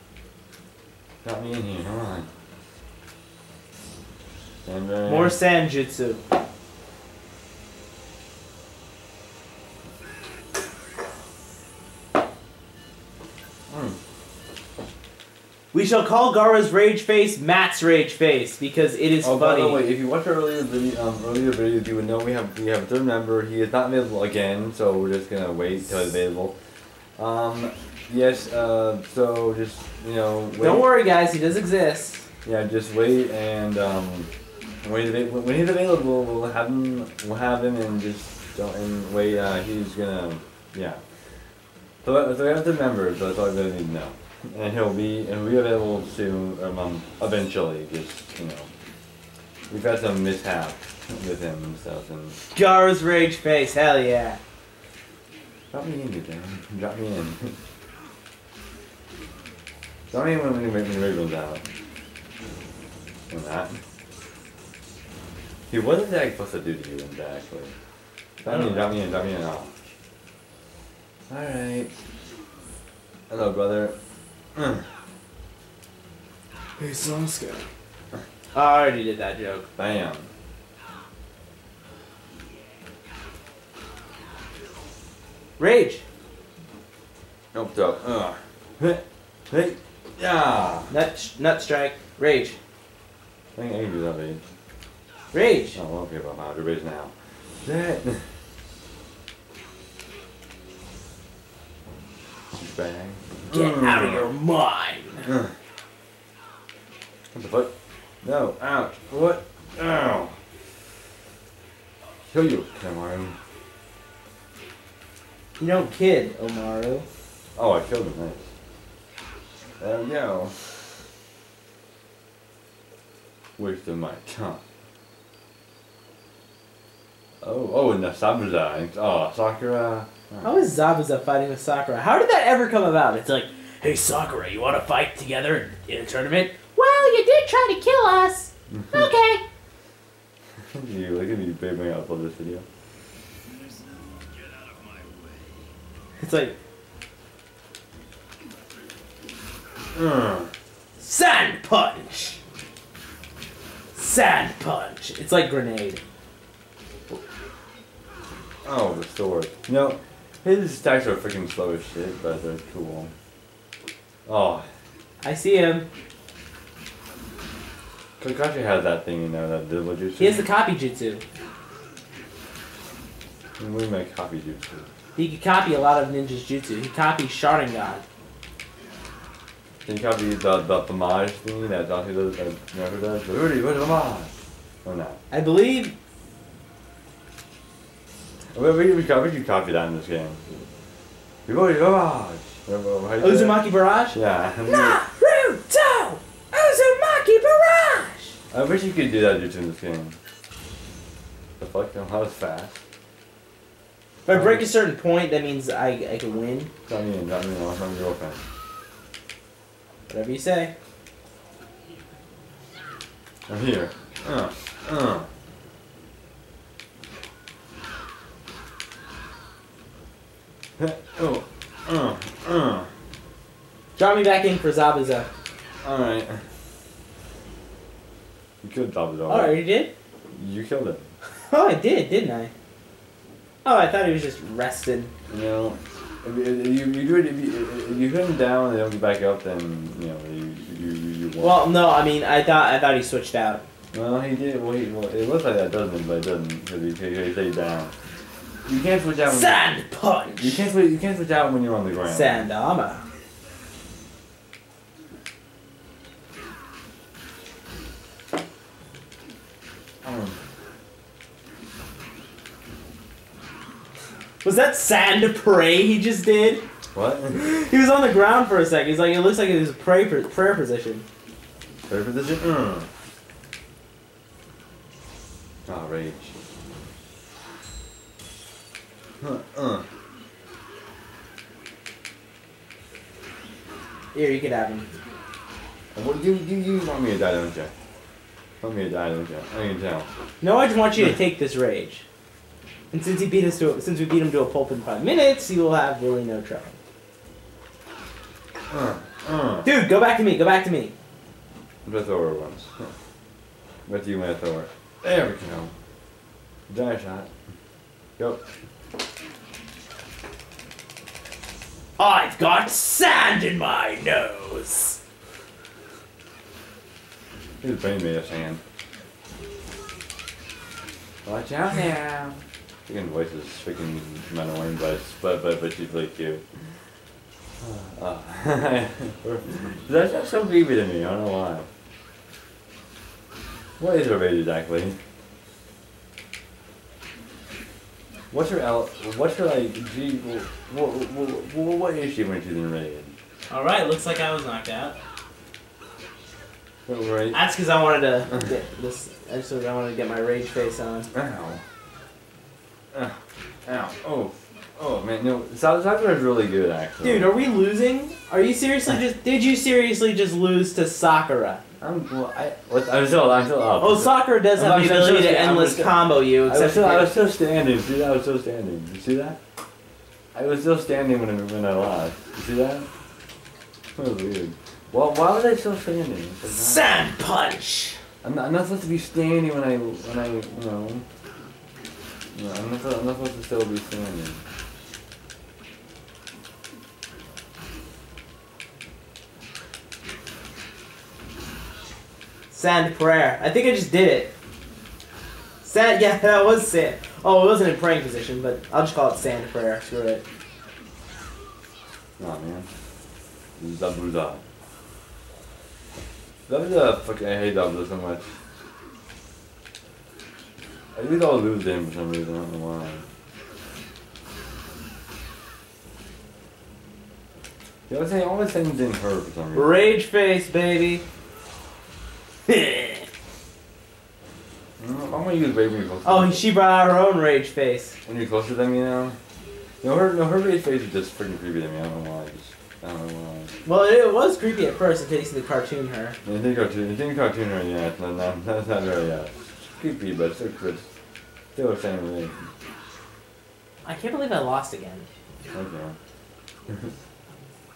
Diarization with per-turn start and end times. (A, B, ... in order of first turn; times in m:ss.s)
0:01.2-0:02.3 A
0:04.7-0:05.4 A
0:05.1-0:06.2 B
0:13.7-0:14.0 A
0:15.7-0:19.8 B
0:19.2-0:26.6 A
0:27.2-0:30.9 A
0:30.6-0:32.3 B
0:32.4-0:34.3 A
0:34.8-0:41.0 A
0:42.0-0:48.7 A
0:49.7-0:52.4 A
0:52.5-0:54.4 B
0:55.7-0:57.6 A
1:00.1-1:01.6 A
1:03.3-1:03.8 A
1:05.7-1:07.7 A
1:08.4-1:09.0 B
1:08.4-1:09.7 A
1:11.3-1:11.9 A
1:13.3-1:14.0 A
1:14.6-1:14.9 A
1:16.8-1:17.7 B
1:18.5-1:19.7 B
1:19.8-1:20.3 A
1:25.6-1:26.0 B
1:27.5-1:30.9 A
1:30.9-1:32.6 B
1:33.6-1:34.4 A
1:35.3-1:35.8 B
1:35.7-1:38.3 A
1:42.5-1:44.3 A
1:43.5-1:45.3 B
1:45.2-1:45.5 A
1:47.3-1:47.7 A
1:48.2-1:50.4 A
1:52.3-1:53.4 A
1:55.6-1:57.1 B
1:57.6-1:58.5 A
1:59.8-2:00.6 A
2:03.6-2:04.6 A
2:07.4-2:10.5 A
2:10.4-2:19.4 B
2:18.7-2:19.1 A
2:20.7-2:22.6 A
2:26.2-2:26.6 B
2:29.9-2:30.5 A
2:31.0-2:32.4 B
2:34.0-2:36.0 B
2:38.6-2:43.1 A
2:44.3-2:44.7 A
2:45.2-2:45.9 B
2:48.2-2:50.5 A
2:50.2-2:51.2 B
2:53.6-2:54.9 A
2:55.2-2:58.0 B
2:59.8-3:04.3 A
3:04.8-3:05.2 A
3:05.3-3:06.0 B
3:08.5-3:10.4 A
3:11.5-3:15.0 A
3:13.2-3:18.4 B
3:18.5-3:20.2 A
3:21.6-3:22.8 A
3:24.2-3:26.7 B
3:24.3-3:24.7 A
3:26.9-3:28.4 A
3:30.1-3:30.7 B
3:33.5-3:35.3 A
3:40.8-3:42.9 A
3:44.0-3:45.3 B
3:45.8-3:46.4 A
3:48.6-3:49.6 A
3:49.3-3:49.9 B
3:50.3-3:51.1 A
3:51.5-3:52.5 B
3:53.6-3:55.1 B
3:55.3-4:01.6 A
4:01.4-4:03.6 B
4:03.9-4:07.9 A
4:08.7-4:09.6 A
4:09.3-4:10.6 B
4:10.4-4:12.5 A
4:12.1-4:13.0 B
4:20.0-4:20.4 A
4:24.4-4:26.6 B
4:26.9-4:27.5 A
4:27.3-4:31.0 B
4:31.9-4:32.9 A
4:35.7-4:36.3 A
4:39.2-4:39.9 A
4:44.1-4:44.9 B
4:46.0-4:47.7 A
4:48.6-4:50.1 A
4:50.4-4:52.1 B
4:52.9-4:56.8 B
4:58.7-4:59.7 A
4:59.6-5:00.9 B
5:01.8-5:02.9 A
5:03.9-5:05.7 A
5:06.7-5:07.3 A
5:12.0-5:15.0 B
5:17.6-5:18.6 A
5:21.2-5:26.5 A
5:27.6-5:31.7 A
5:33.8-5:35.0 A
5:38.3-5:43.2 A
5:43.5-5:45.0 B
5:46.9-5:47.4 A
5:47.3-5:51.1 B
5:51.1-5:51.6 A
5:52.9-5:57.3 A
5:57.0-6:01.6 B
6:01.8-6:09.4 A
6:03.8-6:07.1 B
6:10.4-6:12.9 A
6:14.0-6:16.8 A
6:16.5-6:18.0 B
6:18.2-6:21.0 A
6:22.3-6:24.4 A
6:32.5-6:34.3 B
6:35.6-6:40.2 B
6:42.2-6:42.7 A
6:43.6-6:44.4 A
6:46.5-6:48.3 A
6:51.0-6:53.1 A
6:57.9-6:59.8 A
6:59.5-7:01.0 B
7:02.5-7:03.0 B
7:04.8-7:06.5 A
7:06.0-7:08.0 B
7:08.1-7:09.2 A
7:09.8-7:13.5 A
7:13.6-7:16.2 B
7:16.2-7:20.9 A
7:21.5-7:22.4 A
7:23.8-7:25.1 B
7:25.5-7:26.0 A